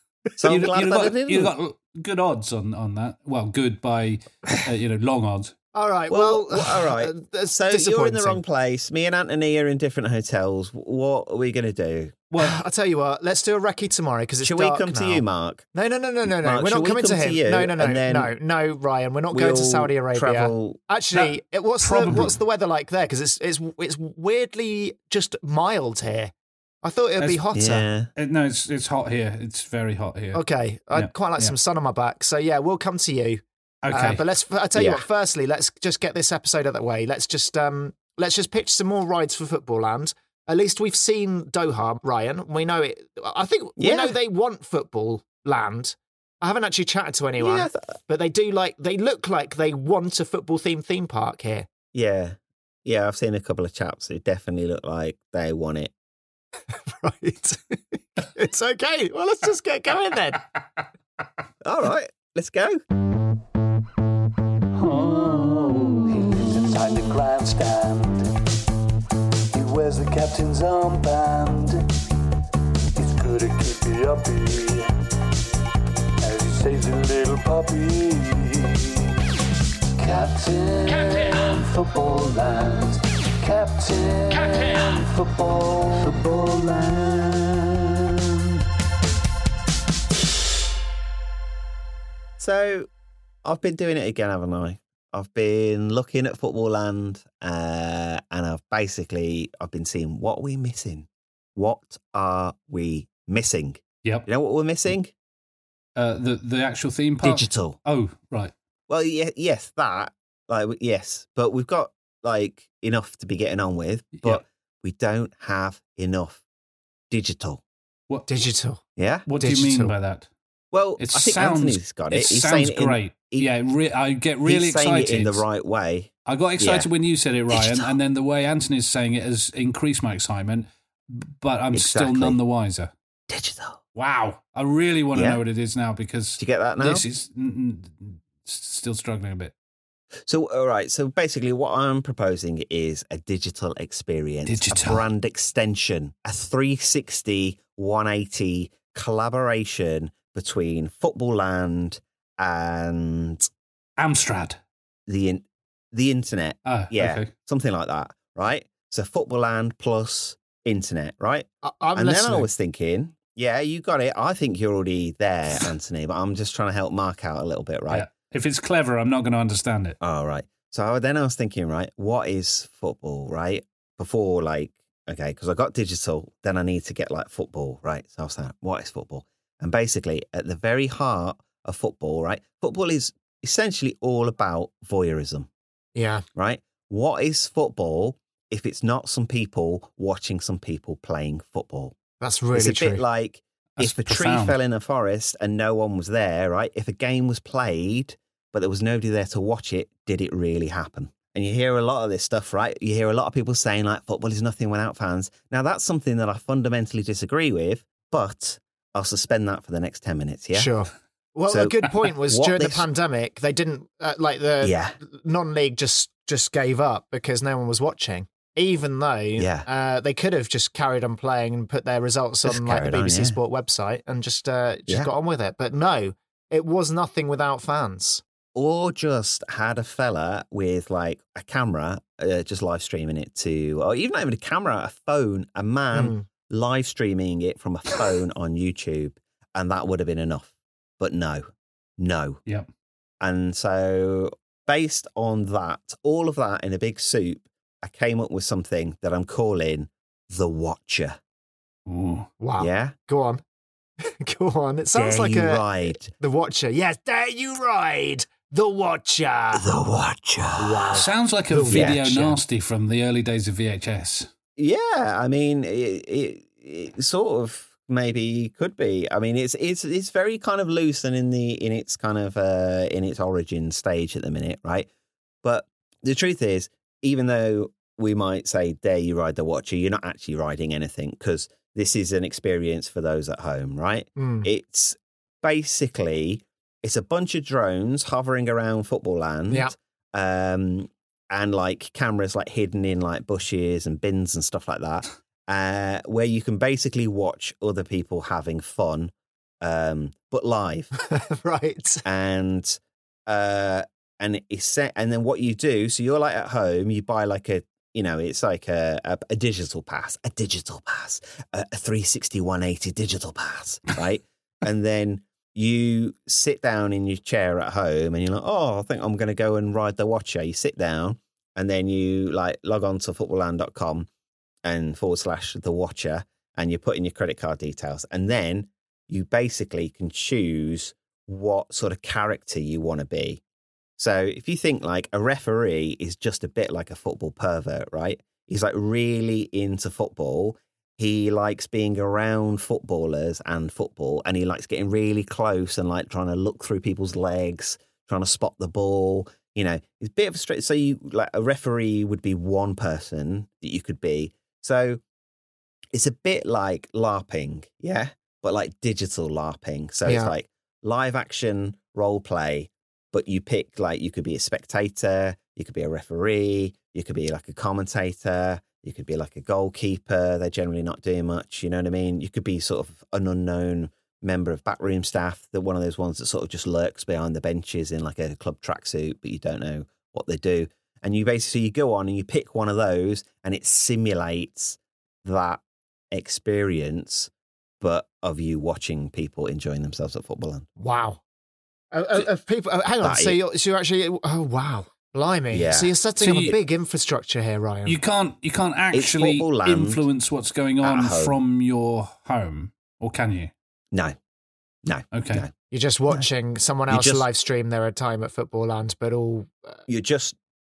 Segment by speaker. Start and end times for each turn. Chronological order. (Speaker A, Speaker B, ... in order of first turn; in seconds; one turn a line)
Speaker A: 0.4-1.5
Speaker B: 0.5-5.5
Speaker C: 5.7-8.4
Speaker A: 6.1-12.2
Speaker B: 12.3-12.6
Speaker C: 12.4-27.9
Speaker A: 14.4-15.7
Speaker A: 16.2-18.3
Speaker A: 19.3-20.8
Speaker B: 21.8-22.4
Speaker A: 22.0-22.3
Speaker A: 27.5-28.1
Speaker B: 28.2-30.4
Speaker C: 30.3-51.7
Speaker B: 30.9-31.5
Speaker B: 33.8-34.2
Speaker A: 34.7-35.0
Speaker A: 43.8-44.2
Speaker A: 47.4-47.9
Speaker A: 51.9-55.9
Speaker C: 56.9-60.5
Speaker A: 61.6-62.8
Speaker B: 64.8-68.2
Speaker D: 66.8-67.2
Speaker B: 69.5-71.7
Speaker D: 69.8-71.3
Speaker B: 73.0-74.8
Speaker D: 73.3-74.4
Speaker B: 76.2-78.0
Speaker D: 76.9-78.5
Speaker B: 80.0-82.6
Speaker D: 81.1-82.8
Speaker B: 83.4-84.5
Speaker D: 83.5-83.9
Speaker D: 84.6-87.1
Speaker B: 85.1-87.5
Speaker A: 92.4-92.9
Speaker A: 93.4-105.1
Speaker B: 106.0-108.5
Speaker A: 107.2-107.8
Speaker A: 108.9-116.4
Speaker B: 114.1-114.4
Speaker A: 117.1-117.6
Speaker C: 118.3-118.8
Speaker A: 119.0-119.2
Speaker B: 119.3-120.3
Speaker C: 119.4-119.9
Speaker A: 120.7-123.5
Speaker B: 121.0-125.4
Speaker A: 124.4-126.9
Speaker B: 126.2-132.9
Speaker A: 127.5-127.9
Speaker A: 131.7-132.4
Speaker A: 133.3-133.8
Speaker B: 133.9-139.5
Speaker A: 135.1-135.4
Speaker A: 136.4-137.0
Speaker A: 140.2-153.5
Speaker B: 144.5-145.1
Speaker B: 154.0-154.6
Speaker A: 155.1-168.1
Speaker B: 156.7-157.3
Speaker C: 161.6-162.5
Speaker B: 167.9-170.0
Speaker A: 170.0-185.5
Speaker C: 185.9-186.2
Speaker A: 186.3-191.9
Speaker C: 192.2-193.0
Speaker A: 192.5-210.7
Speaker B: 193.8-194.6
Speaker C: 210.5-228.2
Speaker A: 211.5-212.8
Speaker A: 214.6-214.9
Speaker A: 219.4-219.7
Speaker A: 222.4-223.4
Speaker A: 228.5-242.4
Speaker C: 235.9-236.3
Speaker A: 243.2-251.2
Speaker B: 251.9-252.3
Speaker C: 252.4-253.4
Speaker A: 252.6-252.9
Speaker C: 254.0-259.6
Speaker A: 254.9-256.1
Speaker A: 259.5-261.0
Speaker C: 260.6-261.9
Speaker B: 260.9-264.3
Speaker A: 261.7-262.3
Speaker A: 264.6-274.9
Speaker A: 275.4-300.9
Speaker C: 284.1-284.5
Speaker C: 301.0-302.0
Speaker A: 302.0-324.1
Speaker A: 324.6-333.4
Speaker A: 334.0-355.0
Speaker A: 355.9-387.3
Speaker C: 360.0-360.3
Speaker A: 387.8-390.7
Speaker C: 390.8-391.2
Speaker C: 391.9-398.0
Speaker A: 393.0-393.4
Speaker A: 395.5-395.9
Speaker B: 396.2-396.6
Speaker B: 397.9-403.5
Speaker A: 398.9-400.0
Speaker A: 400.8-401.3
Speaker A: 404.8-405.5
Speaker B: 405.1-405.4
Speaker C: 405.7-409.8
Speaker A: 406.9-407.2
Speaker A: 409.9-410.4